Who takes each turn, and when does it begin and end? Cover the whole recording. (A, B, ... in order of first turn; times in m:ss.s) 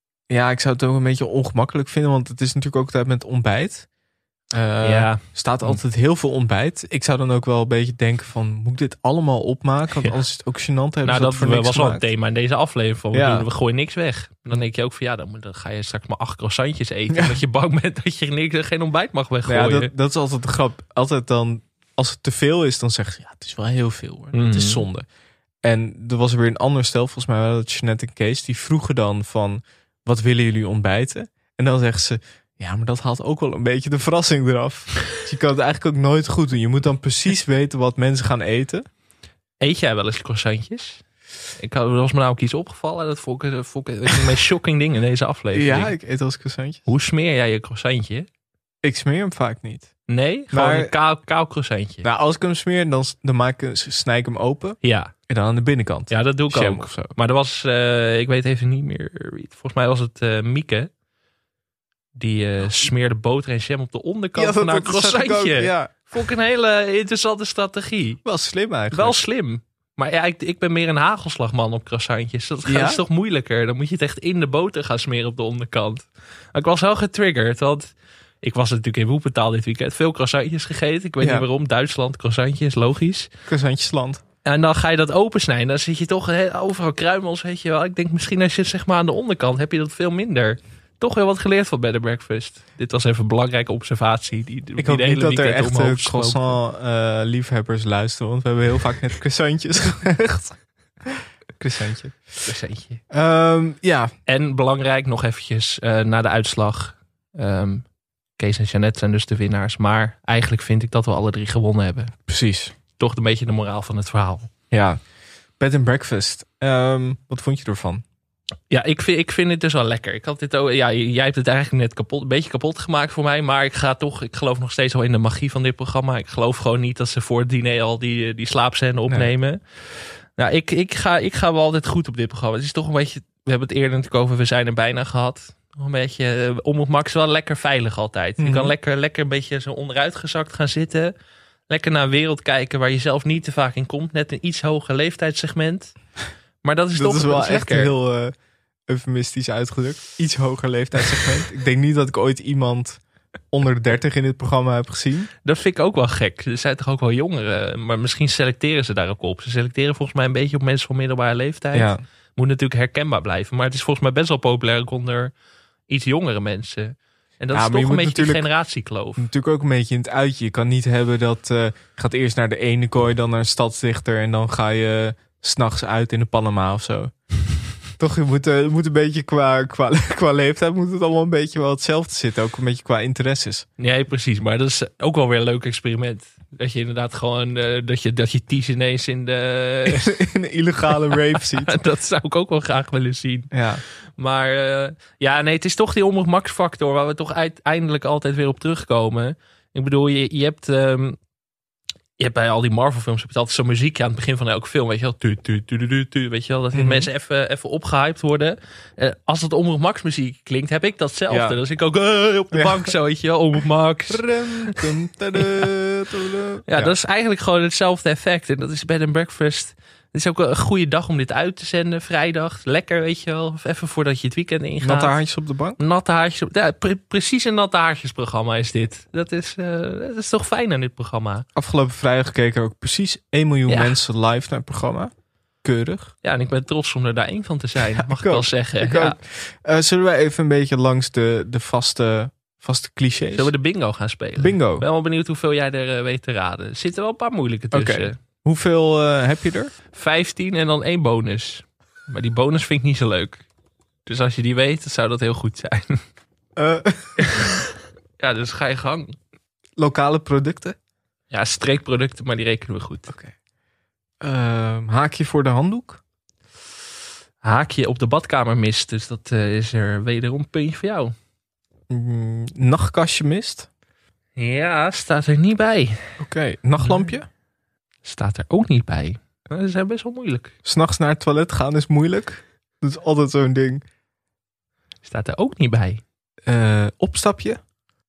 0:00.3-0:03.9 A
0:04.5-0:12.1 A
0:04.8-0:05.8 B
0:11.0-0:19.9 B
0:13.1-0:13.5 A
0:17.1-0:17.4 A
0:19.4-0:25.1 A
0:24.3-0:24.8 B
0:25.6-0:38.9 A
0:39.6-0:41.0 B
0:41.6-0:46.0 B
0:45.5-0:46.9 A
0:46.9-0:48.3 B
0:48.8-0:49.9 A
0:50.1-0:52.1 B
0:50.5-0:50.9 A
0:52.0-0:57.1 A
0:54.8-0:55.1 B
0:56.1-1:00.9 B
1:02.2-1:08.2 B
1:04.4-1:06.0 A
1:08.2-1:09.2 A
1:08.9-1:23.3 B
1:12.7-1:13.0 A
1:21.2-1:21.5 A
1:23.5-1:24.2 A
1:24.4-1:36.6 B
1:34.8-1:42.4 A
1:42.4-1:43.0 B
1:43.1-1:44.1 A
1:44.3-1:47.8 B
1:48.4-1:52.1 B
1:52.3-1:52.7 A
1:53.0-1:54.5 B
1:54.7-1:55.0 A
1:55.6-1:58.0 A
1:58.7-2:09.6 B
2:10.4-2:21.1 B
2:18.4-2:18.7 A
2:21.7-2:26.0 B
2:26.6-2:27.9 B
2:26.9-2:28.3 A
2:28.9-2:35.3 A
2:35.4-2:45.3 B
2:41.7-2:42.0 A
2:45.9-2:49.3 B
2:47.5-2:48.5 A
2:49.2-2:57.1 A
2:58.0-3:03.7 A
3:03.8-3:10.1 B
3:09.9-3:11.8 A
3:11.1-3:13.5 B
3:13.5-3:13.8 A
3:14.2-3:21.2 B
3:22.2-3:34.3 B
3:26.7-3:27.1 A
3:31.3-3:31.6 A
3:32.5-3:32.9 A
3:34.1-3:36.9 A
3:36.7-3:45.2 B
3:44.8-3:45.8 A
3:45.8-3:51.5 B
3:51.6-3:55.1 A
3:53.7-3:54.0 B
3:55.6-3:56.1 A
3:56.2-3:59.2 B
3:58.0-4:03.5 A
4:03.3-4:08.2 B
4:04.4-4:04.9 A
4:07.7-4:09.7 A
4:09.9-4:13.4 B
4:14.1-4:16.0 B
4:16.6-4:17.5 A
4:17.2-4:17.6 B
4:18.2-4:19.2 B
4:19.8-4:20.8 A
4:21.3-4:23.1 B
4:23.1-4:23.3 A
4:24.2-4:26.0 A
4:27.4-4:31.1 B
4:31.9-4:33.7 A
4:34.4-4:36.2 B
4:36.2-4:37.3 A
4:36.8-4:37.1 B
4:38.0-4:40.5 B
4:40.6-4:43.8 A
4:45.0-4:46.0 B
4:46.5-4:47.6 A